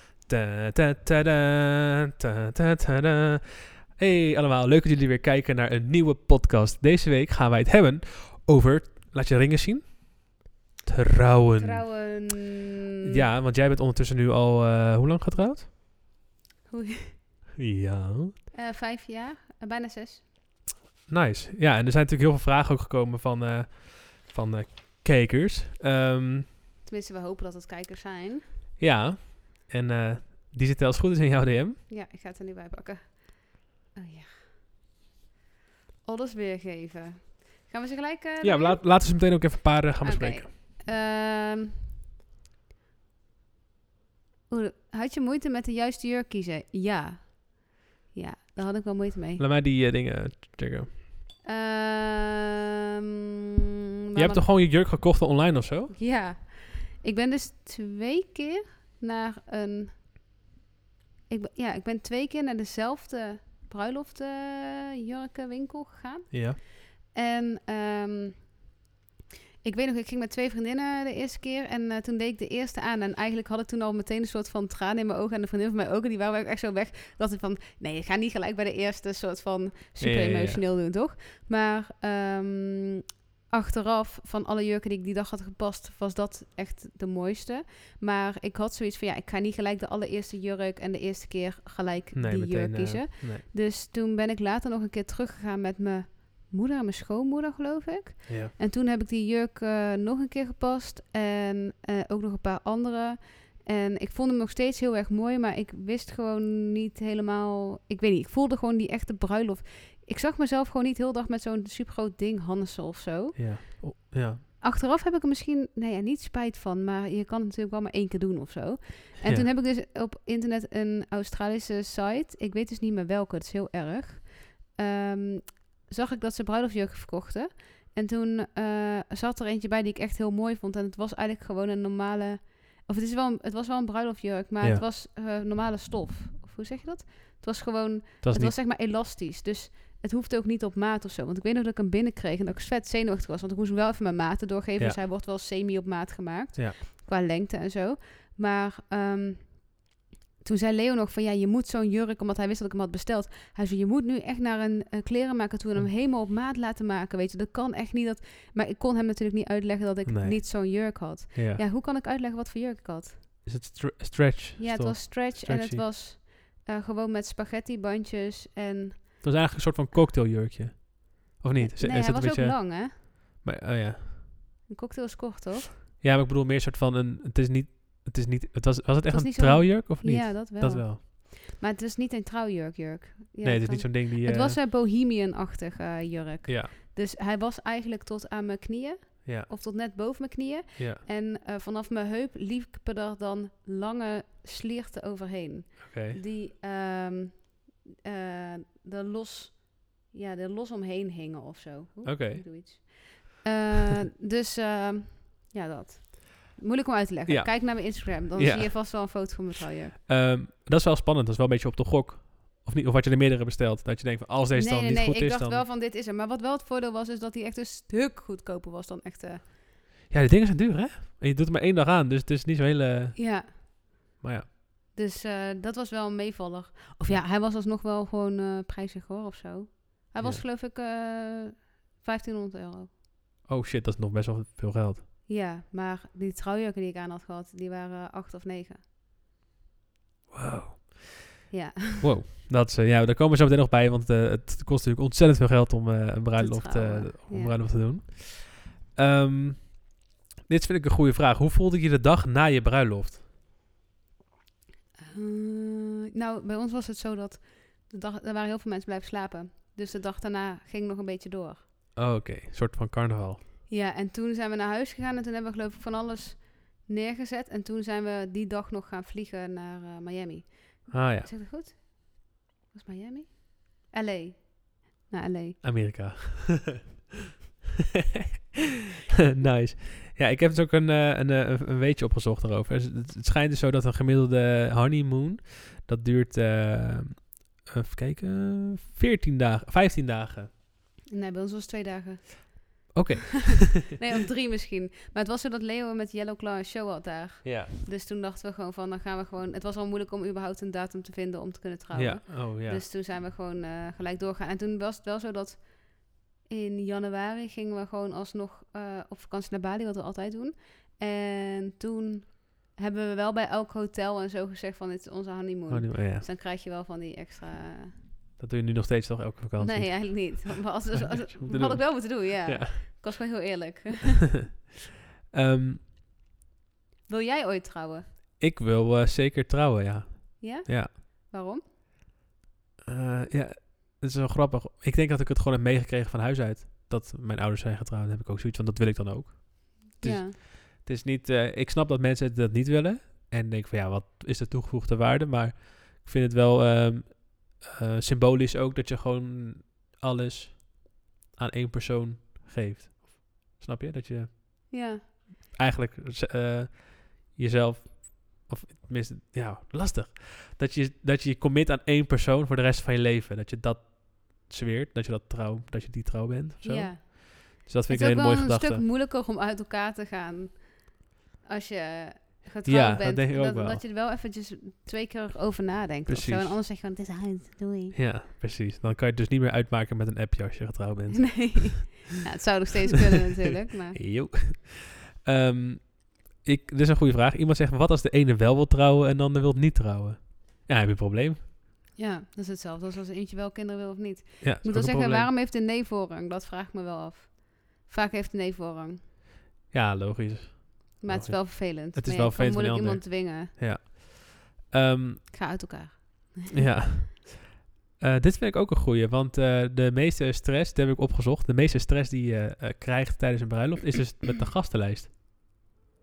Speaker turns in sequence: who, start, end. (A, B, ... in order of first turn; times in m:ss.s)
0:00.2-0:11.9 A
0:11.6-0:13.2 B
0:13.0-0:15.7 A
0:16.7-0:17.2 B
0:17.6-0:18.4 A
0:18.5-0:20.2 B
0:21.1-0:26.5 A
0:26.8-0:28.4 B
0:28.8-0:31.8 A
0:31.9-0:34.6 B
0:36.0-0:39.1 B
0:38.4-0:40.5 A
0:40.0-0:41.7 B
0:44.5-0:49.4 B
0:49.4-0:51.0 A
0:51.4-0:52.5 B
0:54.1-0:54.4 B
0:54.1-0:56.0 A
0:55.9-1:00.0 B
1:01.3-1:08.6 B
1:06.3-1:06.6 A
1:09.6-1:53.7 B
1:20.0-1:20.6 A
1:32.1-1:33.4 A
1:38.3-1:38.5 A
1:53.4-1:54.4 A
1:54.6-2:43.4 B
1:59.2-1:59.5 A
2:18.2-2:18.6 A
2:40.0-2:41.6 A
2:43.4-2:45.9 A
2:44.6-2:49.2 B
2:49.2-2:54.3 A
2:51.6-2:53.0 B
2:54.7-2:55.8 B
2:56.0-3:01.0 A
2:59.1-3:29.9 B
3:03.4-3:04.6 A
3:06.4-3:06.7 A
3:09.2-3:09.5 A
3:10.8-3:11.0 A
3:15.8-3:16.2 A
3:22.0-3:22.5 A
3:27.3-3:29.3 A
3:30.1-3:35.6 A
3:34.6-3:39.5 B
3:40.1-3:43.2 A
3:43.1-3:43.6 B
3:44.2-3:44.5 A
3:44.9-3:52.9 B
3:50.2-3:50.4 A
3:53.4-3:55.0 A
3:55.3-3:58.8 B
4:00.3-4:01.1 A
4:01.5-4:02.0 B
4:02.0-4:13.2 A
4:06.3-4:07.6 B
4:15.0-4:21.6 B
4:22.0-4:23.4 A
4:23.7-4:35.6 B
4:30.9-4:31.3 A
4:35.6-4:37.0 A
4:39.3-4:50.5 A
4:51.1-4:52.9 B
4:52.9-4:53.9 A
4:53.6-5:18.0 B
4:57.4-4:57.7 A
5:01.9-5:02.8 A
5:15.7-5:16.3 A
5:18.4-5:23.2 A
5:19.6-5:24.3 B
5:25.3-5:25.8 A
5:27.1-5:28.1 B
5:28.4-5:30.9 A
5:30.4-5:31.6 B
5:32.8-5:54.8 A
5:39.9-5:40.4 B
5:54.7-5:55.0 B
5:55.5-6:08.8 A
6:06.6-6:18.0 B
6:12.6-6:13.8 A
6:16.0-6:16.6 A
6:17.9-6:21.9 A
6:21.2-6:24.0 B
6:23.9-6:31.4 A
6:31.9-6:39.0 B
6:34.4-6:35.3 A
6:39.7-6:45.3 A
6:41.0-6:43.5 B
6:45.3-6:46.5 B
6:46.5-6:55.1 A